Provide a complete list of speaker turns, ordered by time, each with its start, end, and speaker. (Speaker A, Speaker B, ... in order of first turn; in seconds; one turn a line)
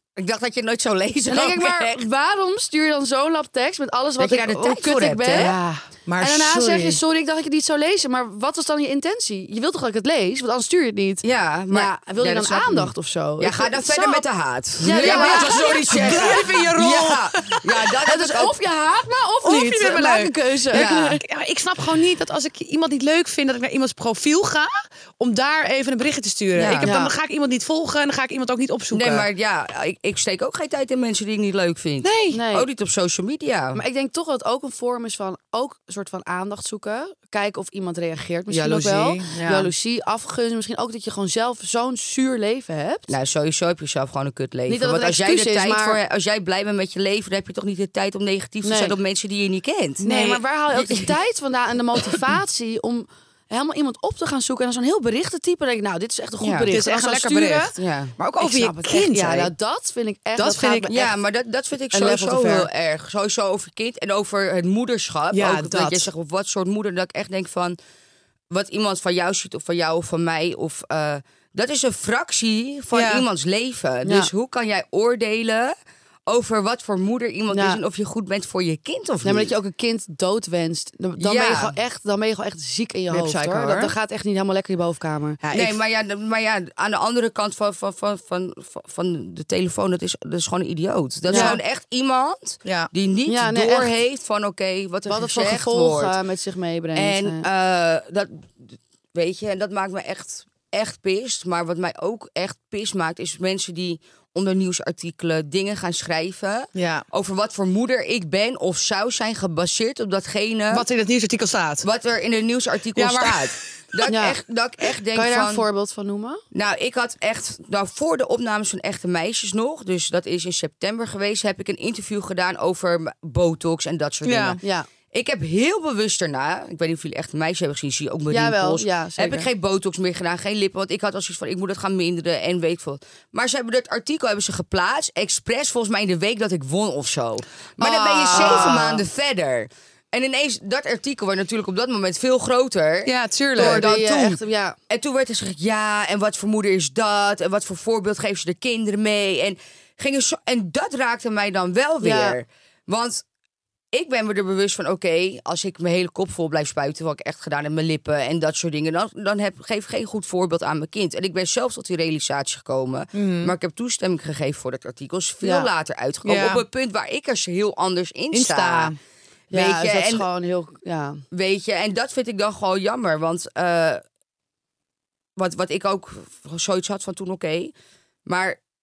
Speaker A: 0.2-2.0
Speaker B: 1.3-5.7
Speaker A: 4.2-5.5
Speaker C: 5.3-7.0
Speaker B: 6.2-14.2
Speaker A: 11.2-18.6
Speaker B: 14.8-16.5
Speaker C: 14.9-17.9
Speaker B: 18.1-21.2
Speaker C: 19.4-29.3
Speaker A: 20.7-21.2
Speaker A: 26.6-26.9
Speaker B: 26.8-27.1
Speaker A: 28.9-33.8
Speaker C: 32.0-32.4
Speaker B: 32.3-32.7
Speaker B: 33.7-43.1
Speaker C: 38.5-39.7
Speaker A: 43.1-50.1
Speaker B: 44.7-46.0
Speaker B: 48.6-48.9
Speaker B: 50.0-57.8
Speaker C: 50.0-50.4
Speaker A: 50.7-51.1
Speaker A: 56.4-56.7
Speaker C: 56.7-59.5
Speaker A: 57.8-58.1
Speaker B: 58.4-61.1
Speaker C: 60.4-60.9
Speaker A: 60.9-67.8
Speaker B: 61.9-62.6
Speaker C: 65.3-66.1
Speaker A: 68.5-75.8
Speaker C: 72.9-73.2
Speaker B: 74.0-74.3
Speaker A: 76.3-79.5
Speaker B: 77.5-77.8
Speaker B: 79.2-85.4
Speaker A: 81.2-81.7
Speaker C: 83.1-83.9
Speaker C: 85.4-85.8
Speaker A: 85.5-96.2
Speaker B: 91.3-91.6
Speaker C: 91.3-91.6
Speaker C: 92.7-92.9
Speaker B: 93.3-94.0
Speaker B: 95.1-97.5
Speaker A: 97.0-110.9
Speaker C: 106.8-107.0
Speaker C: 110.7-111.9
Speaker A: 111.8-115.6
Speaker C: 113.0-114.1
Speaker B: 114.1-114.4
Speaker B: 115.1-116.4
Speaker A: 116.5-144.4
Speaker C: 124.2-124.6
Speaker B: 124.6-124.9
Speaker B: 128.3-129.5
Speaker C: 137.8-139.0
Speaker B: 138.3-139.0
Speaker C: 143.1-143.9
Speaker B: 143.6-144.8
Speaker A: 144.9-153.2
Speaker B: 152.0-152.4
Speaker A: 153.9-168.9
Speaker C: 163.1-163.5
Speaker B: 165.4-165.7
Speaker C: 166.2-166.7
Speaker C: 168.3-169.0
Speaker A: 169.5-170.3
Speaker B: 169.5-171.2
Speaker A: 171.3-174.0
Speaker A: 175.4-177.7
Speaker A: 178.3-178.6